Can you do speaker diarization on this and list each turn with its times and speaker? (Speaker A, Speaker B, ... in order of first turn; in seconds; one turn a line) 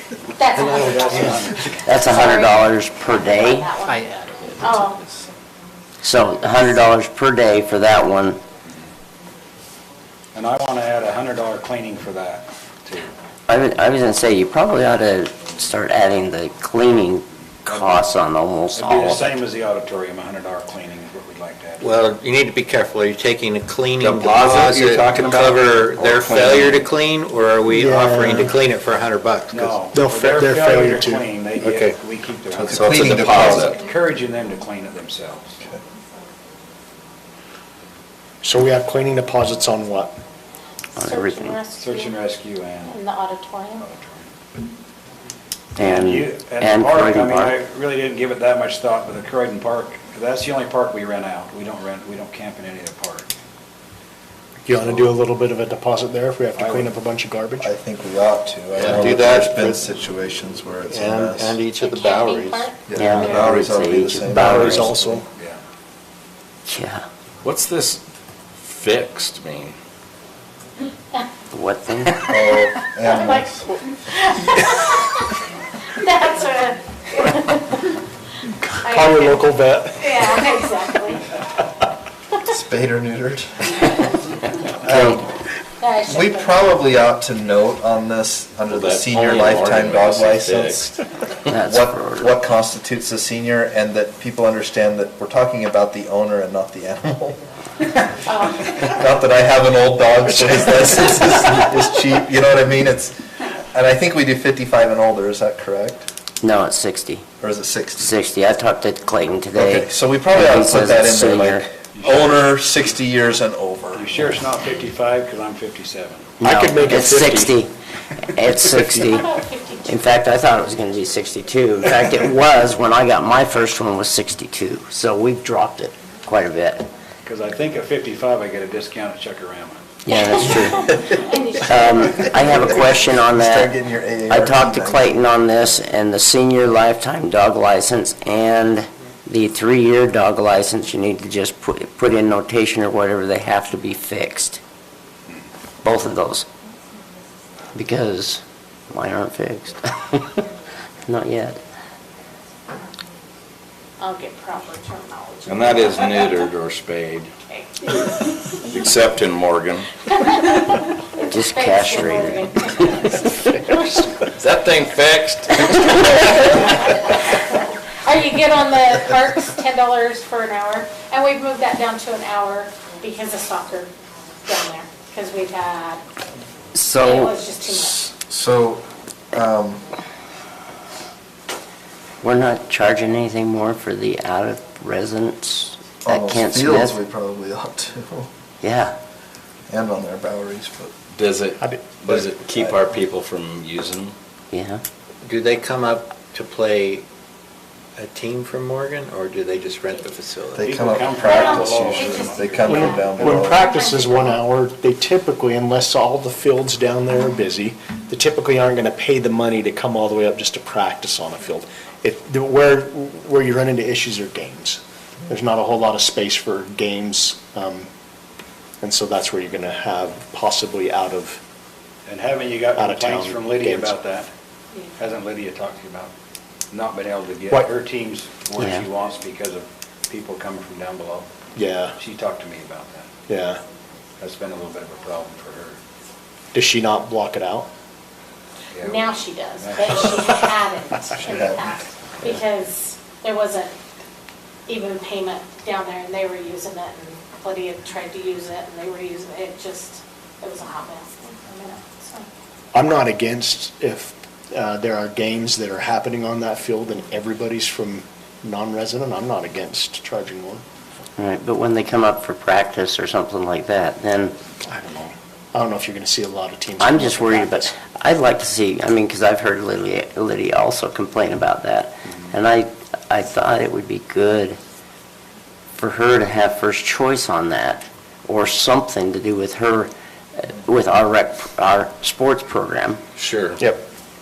Speaker A: 0.4-5.0
Speaker B: 0.5-1.5
Speaker C: 0.8-1.8
Speaker D: 1.8-3.7
Speaker B: 3.9-4.9
Speaker D: 6.0-8.4
Speaker C: 10.3-13.1
Speaker D: 13.5-19.4
Speaker C: 17.7-18.0
Speaker C: 18.7-21.9
Speaker B: 21.8-29.8
Speaker E: 24.0-26.9
Speaker F: 24.4-25.3
Speaker G: 27.7-28.6
Speaker C: 29.5-35.6
Speaker G: 29.9-31.2
Speaker B: 31.6-31.9
Speaker F: 32.5-33.7
Speaker E: 32.7-33.8
Speaker B: 32.8-33.3
Speaker G: 38.4-40.2
Speaker D: 41.0-41.6
Speaker A: 41.0-42.2
Speaker C: 41.8-43.0
Speaker A: 42.9-43.9
Speaker C: 43.8-44.3
Speaker D: 45.8-47.5
Speaker C: 45.8-53.3
Speaker G: 54.6-57.7
Speaker C: 56.5-56.9
Speaker F: 57.6-61.6
Speaker B: 58.7-59.8
Speaker B: 60.9-62.7
Speaker A: 61.7-63.7
Speaker F: 62.8-65.2
Speaker D: 63.0-64.9
Speaker G: 64.2-65.2
Speaker D: 66.7-67.0
Speaker E: 67.4-68.0
Speaker E: 68.6-69.7
Speaker D: 71.5-72.3
Speaker F: 72.2-73.7
Speaker A: 73.0-75.2
Speaker A: 75.9-78.0
Speaker A: 78.8-79.4
Speaker G: 78.8-80.5
Speaker A: 80.0-81.3
Speaker F: 82.4-83.6
Speaker F: 84.8-85.2
Speaker D: 84.9-85.2
Speaker A: 85.8-86.7
Speaker F: 86.0-90.9
Speaker E: 88.7-90.9
Speaker D: 91.5-92.3
Speaker F: 91.6-97.4
Speaker A: 98.3-98.8
Speaker F: 98.6-103.2
Speaker F: 103.7-106.1
Speaker D: 106.4-107.2
Speaker F: 107.4-108.1
Speaker D: 108.0-111.7
Speaker F: 109.5-114.0
Speaker C: 111.9-112.5
Speaker C: 113.9-116.3
Speaker D: 116.4-117.7
Speaker G: 116.4-117.6
Speaker D: 118.3-119.3
Speaker G: 118.7-119.2
Speaker A: 119.1-120.0
Speaker D: 119.8-126.9
Speaker C: 127.2-129.8
Speaker D: 130.0-130.9
Speaker A: 130.1-133.0
Speaker D: 131.6-133.7
Speaker F: 132.3-135.3
Speaker D: 134.3-144.6
Speaker D: 145.8-146.4
Speaker D: 147.7-150.4
Speaker D: 151.1-151.6
Speaker A: 154.0-156.5
Speaker E: 155.4-157.3
Speaker A: 157.5-158.9
Speaker E: 158.7-159.9
Speaker A: 160.1-164.1
Speaker D: 161.2-163.5
Speaker E: 164.4-166.5
Speaker A: 166.5-173.9
Speaker A: 174.4-176.0
Speaker D: 176.7-177.4
Speaker A: 177.0-178.1
Speaker F: 177.6-179.8
Speaker D: 182.2-187.0
Speaker F: 186.0-188.3
Speaker D: 188.6-188.9
Speaker F: 189.7-190.9
Speaker E: 191.1-194.1
Speaker F: 192.1-192.7
Speaker D: 194.5-194.8
Speaker B: 195.2-197.0
Speaker B: 197.9-200.7
Speaker F: 200.5-203.7
Speaker C: 200.6-203.3
Speaker A: 201.2-204.4
Speaker G: 202.7-217.9
Speaker G: 218.8-221.4
Speaker C: 222.1-224.3
Speaker G: 222.7-224.0
Speaker C: 224.9-226.1
Speaker C: 226.7-231.3
Speaker D: 228.6-228.8
Speaker G: 231.5-231.9
Speaker C: 231.9-233.1
Speaker G: 233.3-233.6
Speaker C: 234.2-235.8
Speaker G: 236.5-237.7
Speaker C: 238.7-240.3
Speaker A: 238.8-243.7
Speaker F: 241.2-241.8
Speaker A: 244.7-252.3
Speaker G: 252.7-260.6
Speaker D: 261.2-264.3
Speaker G: 264.6-267.7
Speaker D: 266.8-274.6
Speaker D: 275.8-283.0
Speaker E: 283.2-283.6
Speaker G: 283.6-283.8